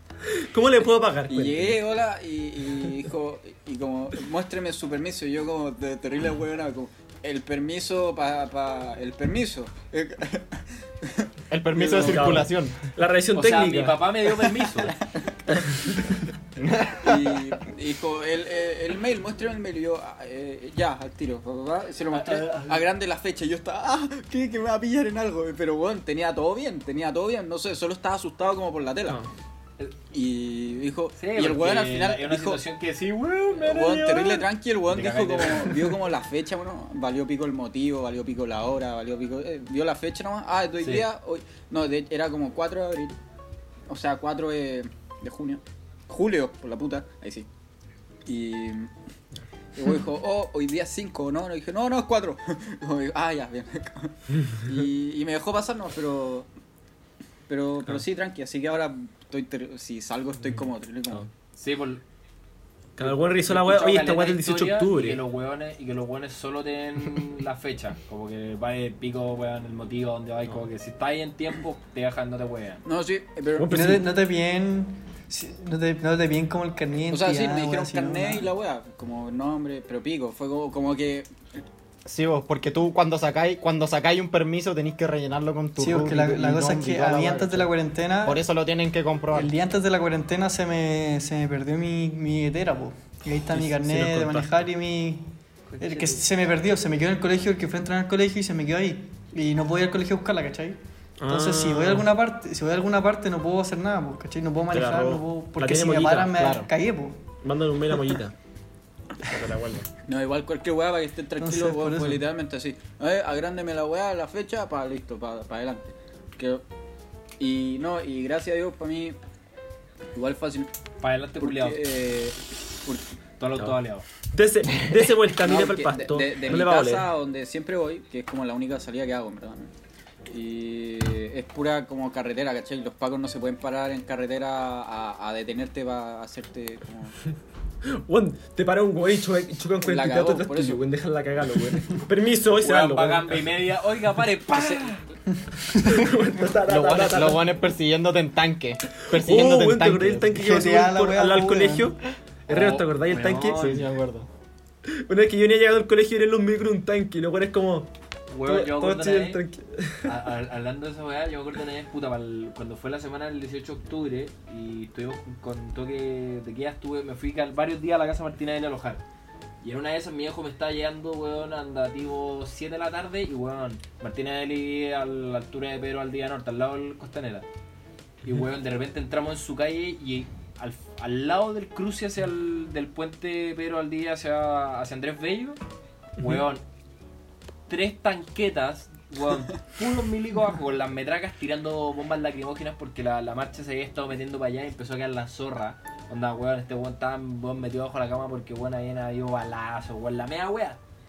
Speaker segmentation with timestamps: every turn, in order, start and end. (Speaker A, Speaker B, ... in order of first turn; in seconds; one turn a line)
Speaker A: 0.2-1.8
Speaker B: 1.3-12.5
Speaker C: 11.5-12.9
Speaker A: 11.9-14.0
Speaker D: 13.3-15.0
Speaker B: 14.8-15.5
Speaker A: 15.6-16.2
Speaker C: 16.6-17.6
Speaker B: 17.0-29.2
Speaker D: 22.1-22.8
Speaker B: 30.1-32.6
Speaker D: 31.2-35.9
Speaker B: 33.6-43.1
Speaker B: 43.9-47.5
Speaker B: 48.2-48.9
Speaker B: 49.7-56.5
Speaker B: 57.5-61.2
Speaker D: 61.6-62.0
Speaker A: 63.0-65.2
Speaker D: 63.0-72.8
Speaker B: 72.9-74.0
Speaker A: 73.5-74.1
Speaker E: 73.7-78.5
Speaker B: 77.1-81.3
Speaker C: 82.0-89.5
Speaker E: 85.8-88.4
Speaker E: 89.3-107.2
Speaker A: 93.5-94.6
Speaker D: 95.7-96.2
Speaker A: 101.2-102.1
Speaker A: 104.7-106.4
Speaker C: 106.3-106.7
Speaker A: 107.4-108.3
Speaker A: 109.2-109.9
Speaker B: 110.0-116.6
Speaker E: 111.4-112.2
Speaker B: 117.4-119.2
Speaker B: 120.1-120.7
Speaker D: 121.0-121.9
Speaker B: 121.4-123.0
Speaker D: 123.4-124.0
Speaker A: 124.3-127.1
Speaker B: 125.4-129.7
Speaker B: 130.3-137.2
Speaker A: 137.9-143.5
Speaker B: 139.8-140.8
Speaker D: 142.6-145.0
Speaker B: 144.5-144.9
Speaker E: 145.3-146.1
Speaker A: 145.7-147.5
Speaker C: 146.7-150.4
Speaker A: 149.0-153.7
Speaker E: 150.4-151.9
Speaker D: 152.5-153.9
Speaker C: 153.6-154.3
Speaker A: 154.9-157.9
Speaker D: 158.3-159.4
Speaker A: 158.4-160.2
Speaker D: 160.0-169.0
Speaker D: 169.6-177.4
Speaker D: 178.2-185.6
Speaker D: 186.2-186.6
Speaker D: 187.7-200.8